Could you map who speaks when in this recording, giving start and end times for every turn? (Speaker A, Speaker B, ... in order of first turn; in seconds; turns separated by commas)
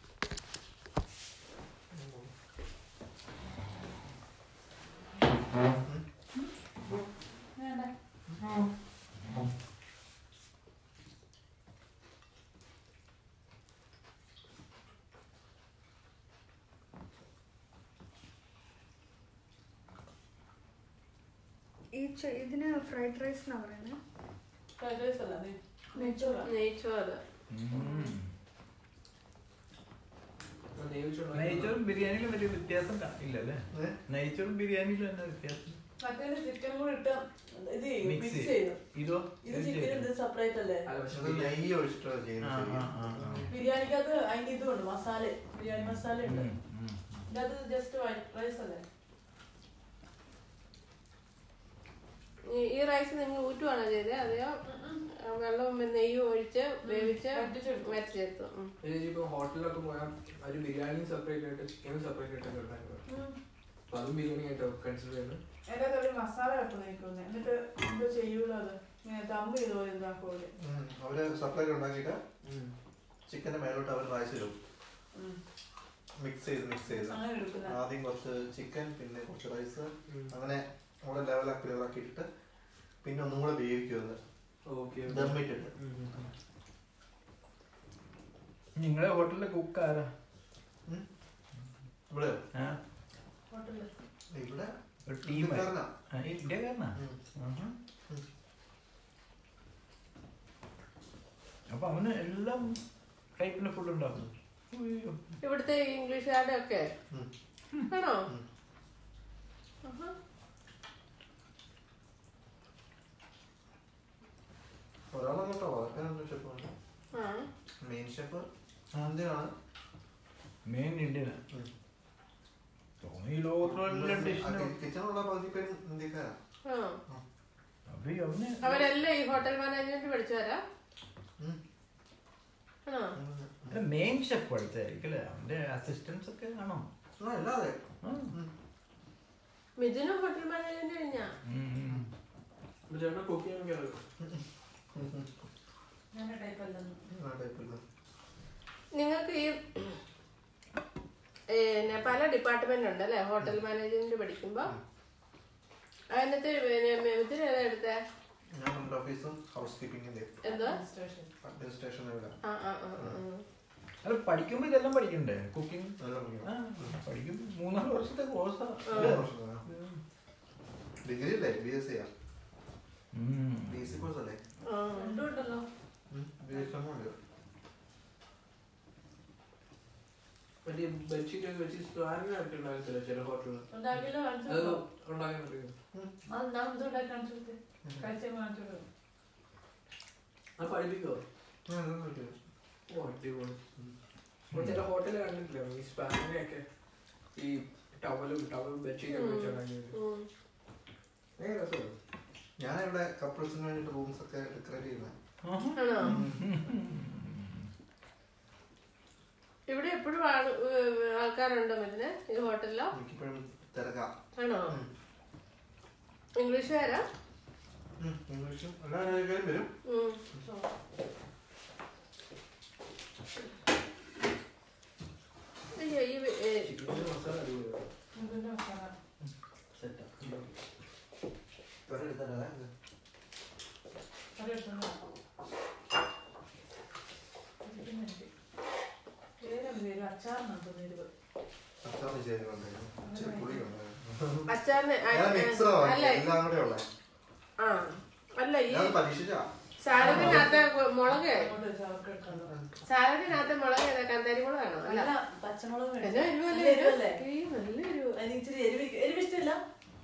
Speaker A: 1.9-2.3, Speaker B: 7.5-7.9, Speaker C: 21.9-24.0, Speaker B: 24.8-26.5, Speaker C: 25.9-26.5, Speaker D: 26.4-27.2, Speaker E: 27.5-28.3, Speaker F: 30.8-31.8, Speaker E: 31.3-35.8, Speaker B: 36.0-38.8, Speaker E: 38.0-40.1, Speaker B: 39.4-40.9, Speaker F: 40.9-41.6, Speaker A: 41.1-43.5, Speaker E: 42.4-43.5, Speaker B: 43.5-46.5, Speaker E: 45.7-47.2, Speaker B: 47.3-48.8, Speaker D: 52.5-54.6, Speaker B: 54.6-55.0, Speaker D: 55.1-58.7, Speaker B: 56.8-57.9, Speaker F: 58.8-63.0, Speaker B: 63.1-63.4, Speaker F: 63.9-65.4, Speaker B: 65.7-70.5, Speaker A: 70.5-72.2, Speaker F: 72.4-72.7, Speaker A: 73.3-74.5, Speaker B: 75.1-75.4, Speaker A: 76.2-82.3, Speaker B: 76.9-77.8, Speaker F: 80.1-80.3, Speaker A: 83.0-84.2, Speaker F: 84.7-86.3, Speaker A: 85.1-85.7, Speaker E: 88.8-90.1, Speaker A: 92.1-92.4, Speaker E: 92.5-92.8, Speaker B: 93.5-93.9, Speaker A: 94.3-94.7, Speaker E: 95.1-97.7, Speaker A: 95.2-95.9, Speaker E: 101.7-102.8, Speaker E: 103.4-105.3, Speaker D: 105.4-106.9, Speaker D: 107.9-108.3, Speaker D: 109.8-110.1, Speaker A: 115.1-116.7, Speaker D: 117.1-117.5, Speaker A: 117.8-119.5, Speaker E: 120.7-121.4, Speaker E: 123.0-124.7, Speaker A: 123.6-126.4, Speaker D: 126.6-127.0, Speaker E: 127.9-128.8, Speaker D: 128.6-130.6, Speaker D: 132.8-133.1, Speaker A: 133.2-133.8, Speaker E: 133.7-136.8, Speaker A: 137.2-138.5, Speaker E: 138.0-138.3, Speaker D: 139.8-141.3, Speaker E: 141.4-142.1, Speaker F: 142.9-144.0, Speaker A: 144.9-145.3, Speaker B: 146.1-147.0, Speaker A: 147.1-147.8, Speaker D: 148.9-150.0, Speaker D: 151.5-154.7, Speaker D: 156.1-158.0, Speaker A: 158.5-160.4, Speaker D: 160.4-160.8, Speaker B: 160.4-161.3, Speaker A: 161.4-162.4, Speaker D: 162.4-163.4, Speaker E: 164.0-170.0, Speaker A: 166.0-166.9, Speaker D: 168.9-169.2, Speaker A: 168.9-169.6, Speaker A: 171.0-172.1, Speaker E: 173.1-173.8, Speaker A: 173.7-174.4, Speaker D: 174.7-175.2, Speaker B: 174.9-175.7, Speaker A: 176.1-177.1, Speaker F: 180.6-183.6, Speaker B: 183.7-184.8, Speaker F: 184.5-185.7, Speaker B: 186.3-188.8, Speaker A: 187.8-188.1, Speaker F: 190.6-191.2, Speaker A: 191.7-192.3, Speaker F: 192.9-193.6, Speaker F: 194.5-196.6, Speaker F: 197.3-199.9, Speaker D: 199.1-200.3, Speaker F: 201.4-201.9, Speaker A: 202.6-205.1, Speaker E: 205.4-207.7, Speaker D: 205.8-206.2, Speaker A: 206.0-206.4, Speaker D: 209.7-212.9, Speaker A: 212.9-214.1, Speaker D: 214.4-214.8, Speaker D: 216.4-217.0, Speaker A: 218.0-219.7, Speaker D: 219.8-220.2, Speaker D: 225.7-227.0, Speaker F: 226.6-227.9, Speaker B: 228.1-228.9, Speaker F: 229.8-230.5, Speaker A: 231.9-232.7, Speaker B: 234.4-235.0, Speaker B: 237.6-238.3, Speaker B: 239.4-241.1, Speaker A: 241.8-244.5, Speaker B: 243.0-243.6, Speaker D: 244.5-246.2, Speaker A: 245.1-246.8, Speaker D: 247.6-248.9, Speaker A: 248.7-250.5, Speaker D: 249.8-251.5, Speaker B: 249.9-252.5, Speaker A: 252.3-252.7, Speaker D: 252.8-255.1, Speaker B: 254.8-257.2, Speaker D: 256.0-258.2, Speaker B: 258.2-259.6